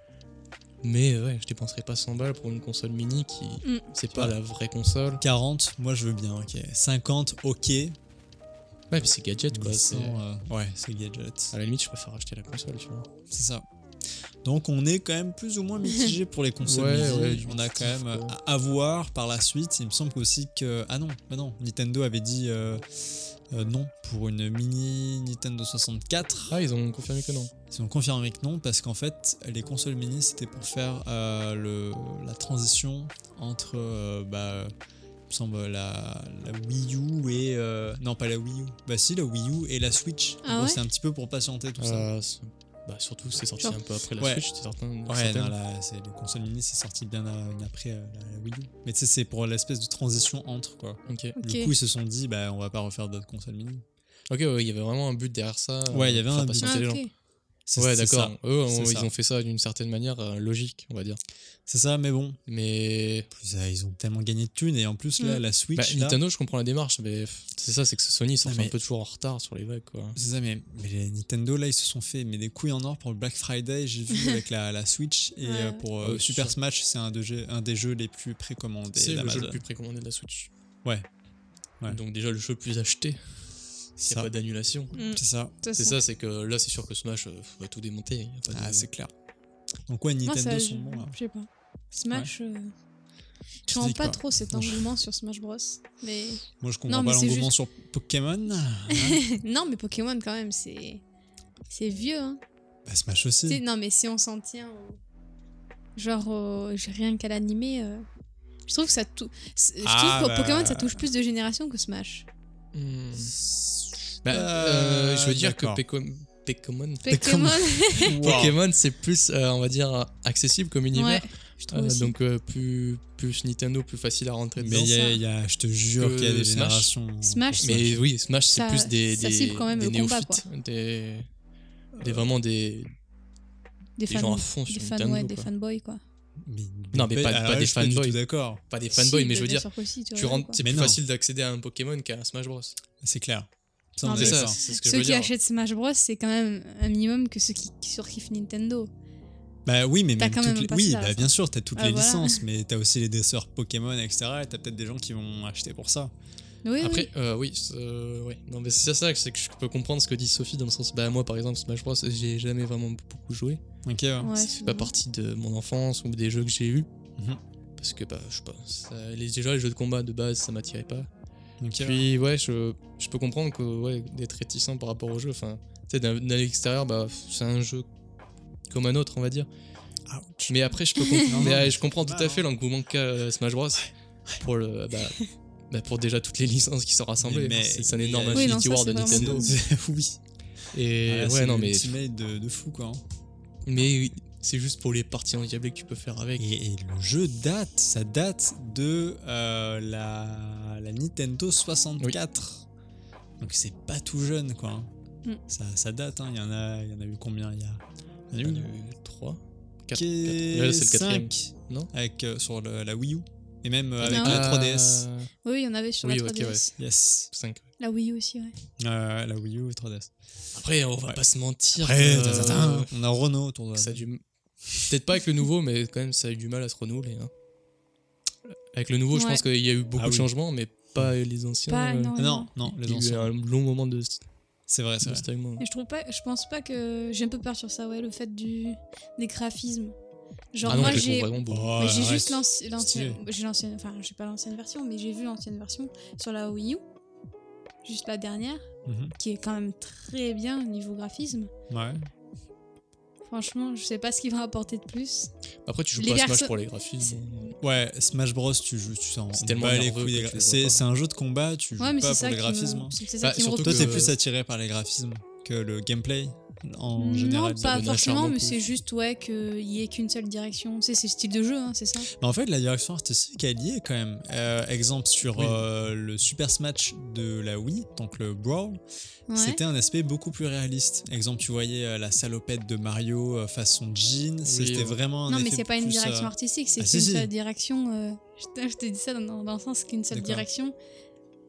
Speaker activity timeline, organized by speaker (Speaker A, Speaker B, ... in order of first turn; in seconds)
Speaker A: 0.8-5.2, 8.9-10.2, 11.5-13.1, 16.6-18.3, 26.5-27.5, 41.8-45.5, 51.1-51.3, 54.3-57.0, 57.8-61.2, 62.5-63.3, 65.7-70.2, 76.0-76.5, 78.9-80.5, 81.9-85.1, 85.8-88.9, 112.7-113.4, 114.2-117.0, 118.0-124.9, 126.0-126.9, 127.6-131.3, 132.0-132.9, 134.1-135.5, 136.9-138.2, 138.7-142.8, 144.1-145.3, 156.8-163.6, 164.4-166.9, 167.8-171.1, 171.8-177.8, 178.7-179.5, 180.5-189.6, 190.7-192.0, 193.7-196.5, 208.4-211.9, 214.0-215.3, 216.0-216.8, 217.3-217.6, 220.6-222.9, 223.8-224.2, 224.8-227.3, 228.7-234.2, 235.0-235.6, 240.7-241.8, 255.7-257.6, 259.3-260.8, 263.2-264.1, 267.6-268.6, 275.3-275.6, 284.4-285.0
Speaker B: 5.2-8.0, 9.5-11.5, 13.3-13.6, 14.4-26.6, 27.7-34.7, 35.3-42.1, 45.1-53.8, 55.9-56.8, 57.7-59.1, 61.7-62.4, 63.3-66.2, 68.4-68.8, 70.2-79.6, 84.0-84.3, 85.1-85.5, 88.5-89.1, 89.9-91.1, 93.7-94.9, 96.6-99.2, 102.9-103.6, 109.8-111.0, 113.1-115.8, 117.1-118.5, 124.6-128.0, 131.9-132.3, 136.4-138.6, 140.6-141.0, 143.0-144.6, 149.6-156.1, 163.8-164.3, 171.6-172.1, 180.1-180.5, 181.2-182.5, 187.2-190.2, 191.1-193.0, 196.4-202.7, 203.4-204.9, 205.5-208.7, 209.9-215.1, 216.8-217.3, 218.8-220.1, 221.7-224.0, 229.9-230.3, 232.2-233.3, 234.7-235.3, 240.7-243.2, 248.8-249.1, 251.7-252.1, 257.6-263.0, 263.6-267.9, 272.2-278.8, 279.3-287.3, 290.1-290.4
Speaker C: 40.4-40.8, 51.4-51.7, 56.6-57.1, 75.4-75.8, 84.9-86.0, 90.2-92.7, 93.7-97.5, 98.9-101.0, 101.7-102.4, 103.5-105.0, 106.0-108.0, 108.7-112.3, 117.0-118.4, 120.9-122.1, 124.8-125.2, 127.2-127.7, 128.5-130.4, 134.0-136.0, 138.9-140.6, 144.0-148.9, 150.2-152.4, 156.6-157.1, 164.2-164.9, 188.3-189.6, 214.0-214.4, 215.4-216.7, 217.8-218.6, 229.1-229.4, 231.7-232.5, 235.6-239.9, 240.5-246.8, 247.8-251.5, 253.3-255.3, 255.9-257.2, 261.8-264.1, 266.9-272.1, 279.3-279.6, 285.3-290.8